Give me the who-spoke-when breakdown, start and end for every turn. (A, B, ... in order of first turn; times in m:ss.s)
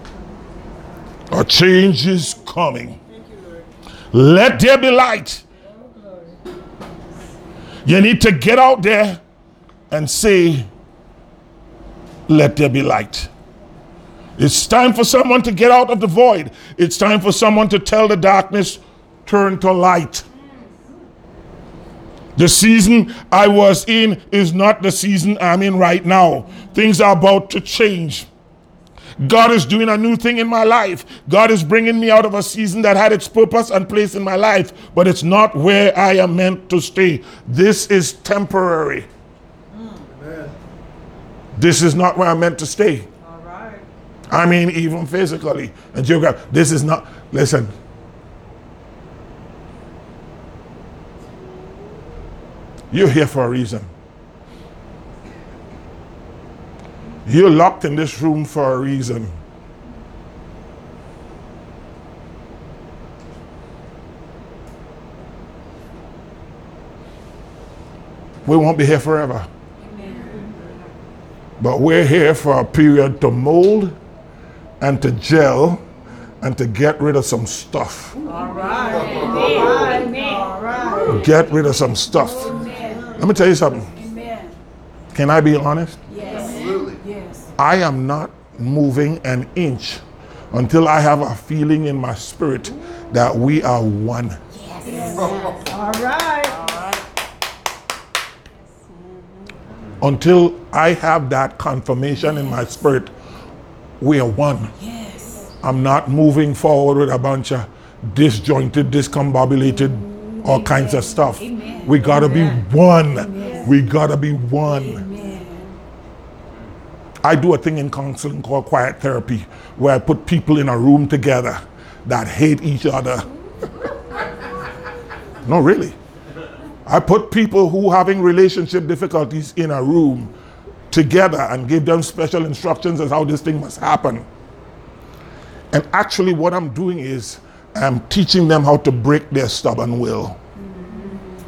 0:01.3-0:03.0 A
0:04.1-0:05.4 A
0:05.8-0:06.4 B
0:07.8-0:09.2 A
0:09.9-0:10.7 A
0:12.3-0:13.3 A
0:14.4-0:20.2 A
0:22.4-0:28.3 A
0:29.2-0:39.1 A
0:39.7-0:40.0 B
0:41.6-0:43.1 A
0:43.2-0:43.9 B
0:44.3-0:47.7 A
0:52.9-0:53.9 A
0:57.3-0:59.3 A
1:08.4-1:09.5 A
1:09.8-1:10.5 C
1:11.6-1:14.0 A
1:14.8-1:15.8 A
1:16.4-1:18.2 A
1:18.2-1:21.3 B
1:18.3-1:20.5 C
1:21.0-1:23.9 A
1:21.9-1:23.2 C
1:22.7-1:23.1 B
1:23.9-1:24.6 C
1:25.1-1:26.0 A
1:26.1-1:27.5 C
1:27.6-1:34.4 A
1:34.5-1:35.6 C
1:34.9-1:36.9 B
1:36.4-1:36.9 C
1:40.0-1:43.1 A
1:44.0-1:44.7 A
1:44.8-1:45.5 C
1:45.6-1:55.0 A
1:50.3-1:52.6 C
1:53.1-1:53.8 C
1:53.4-1:53.7 B
1:54.7-1:55.8 C
1:57.2-2:03.3 A
2:05.4-2:06.0 A
2:06.9-2:10.3 A
2:10.9-2:14.3 A
2:15.7-2:20.4 A